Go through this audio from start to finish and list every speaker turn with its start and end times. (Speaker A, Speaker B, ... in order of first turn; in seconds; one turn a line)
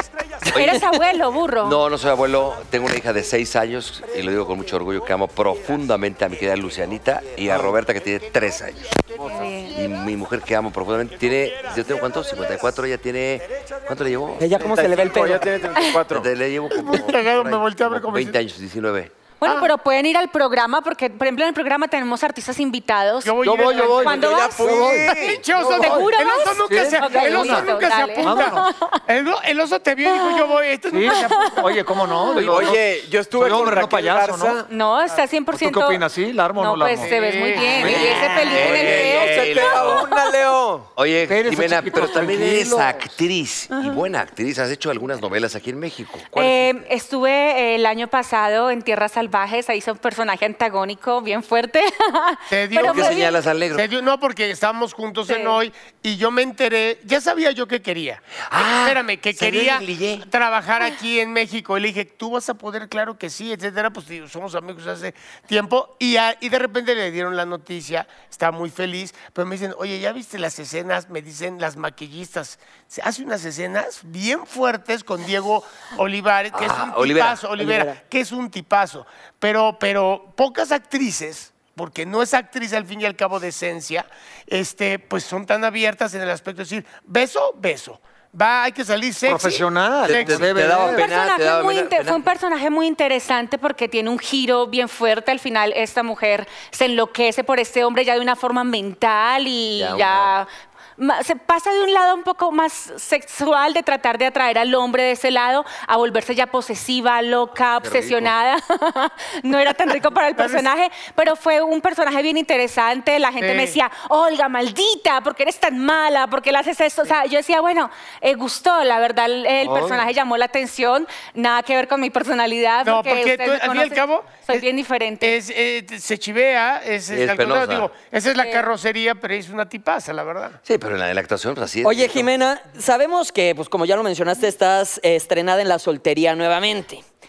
Speaker A: 0.4-0.8
Speaker B: 0.5-1.8
Speaker A: 1.6-9.0
Speaker B: 9.2-9.8
Speaker A: 9.7-14.5
Speaker C: 14.4-15.5
Speaker D: 14.5-16.3
Speaker A: 16.1-19.1
Speaker E: 16.7-18.4
Speaker B: 19.4-24.9
Speaker E: 19.4-19.7
Speaker E: 23.2-24.2
Speaker F: 23.4-26.1
Speaker D: 23.9-25.7
Speaker E: 25.1-31.7
Speaker B: 25.7-29.0
Speaker F: 26.6-28.7
Speaker F: 30.9-34.6
Speaker B: 31.1-31.6
Speaker D: 32.4-34.6
Speaker B: 34.7-36.0
Speaker F: 35.5-38.1
Speaker B: 36.5-40.1
Speaker E: 37.0-38.0
Speaker A: 37.8-40.1
Speaker D: 37.9-40.9
Speaker A: 41.0-46.7
Speaker F: 41.3-43.0
Speaker B: 46.3-53.4
Speaker E: 52.5-90.5
Speaker A: 52.8-53.9
Speaker B: 55.3-55.6
Speaker A: 58.5-60.2
Speaker A: 76.5-77.4
Speaker C: 77.6-78.0
Speaker F: 89.2-91.0
Speaker A: 90.0-92.3
Speaker B: 90.8-125.4
Speaker A: 99.8-100.3
Speaker A: 107.8-108.3
Speaker E: 110.4-110.6
Speaker E: 113.4-113.8
Speaker F: 119.6-120.0
Speaker E: 122.8-124.6
Speaker E: 125.2-130.6
Speaker A: 127.1-127.9
Speaker B: 128.4-128.7
Speaker A: 130.7-132.2
Speaker C: 131.8-137.0